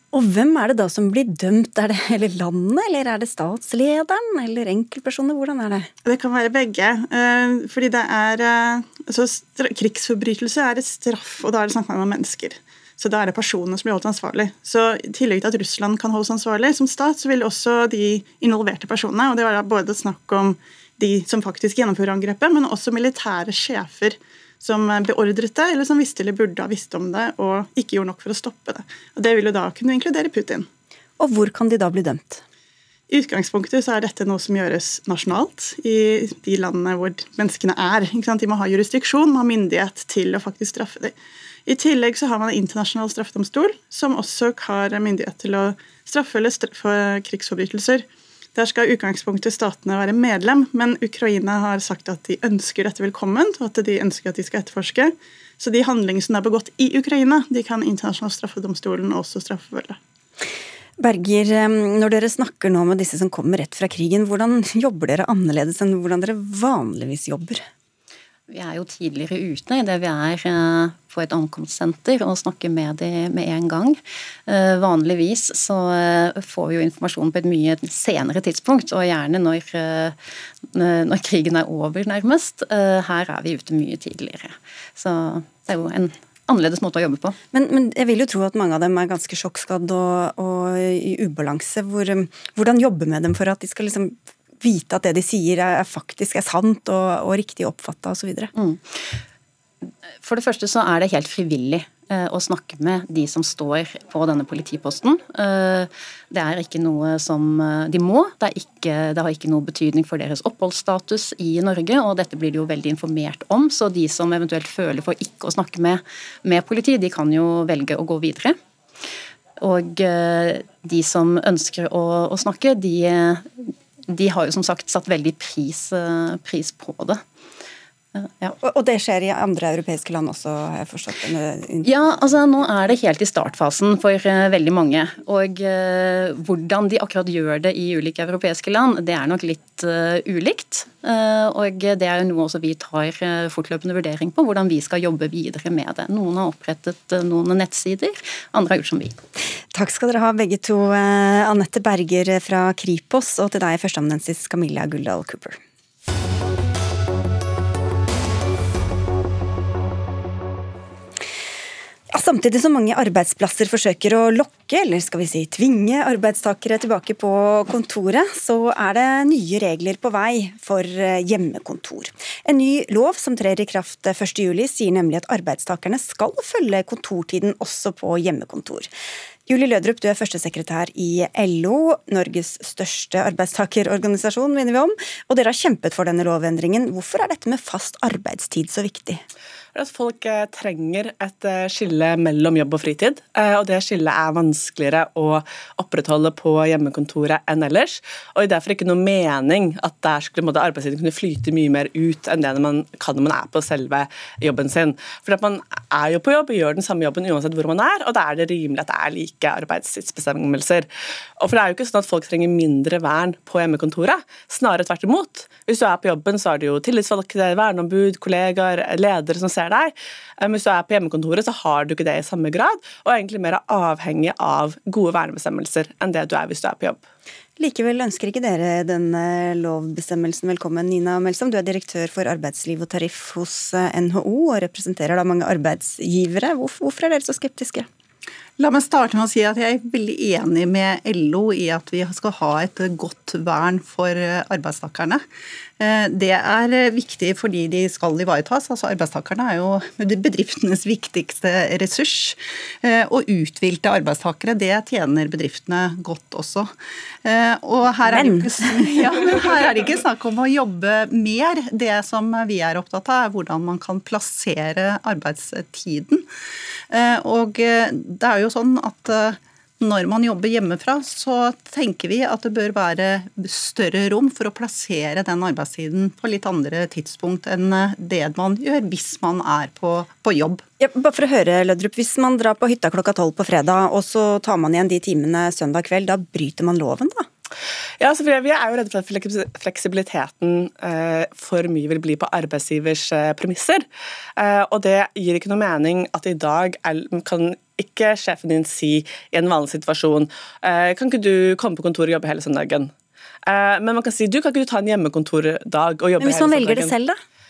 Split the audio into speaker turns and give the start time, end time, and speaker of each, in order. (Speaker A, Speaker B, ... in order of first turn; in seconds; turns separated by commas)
Speaker A: 0.1-5.9, Speaker B: 6.0-30.7, Speaker A: 31.2-32.4, Speaker B: 33.1-41.1, Speaker B: 41.7-60.0, Speaker A: 61.0-67.6, Speaker C: 68.5-80.2, Speaker C: 80.7-87.4, Speaker A: 87.5-98.5, Speaker C: 98.5-99.2, Speaker C: 100.2-118.5, Speaker C: 119.6-127.2, Speaker C: 128.1-128.6, Speaker A: 128.6-132.1, Speaker C: 131.8-149.1, Speaker A: 149.7-155.6, Speaker A: 162.1-178.9, Speaker A: 179.5-189.2, Speaker D: 189.7-210.9, Speaker D: 211.4-227.0, Speaker A: 227.6-237.9, Speaker E: 238.6-245.2, Speaker E: 245.8-256.7, Speaker E: 257.2-266.2, Speaker A: 258.1-258.7, Speaker E: 266.9-280.6, Speaker A: 280.8-287.3, Speaker D: 288.0-293.9, Speaker D: 294.4-302.9, Speaker D: 303.5-306.9, Speaker A: 306.2-307.2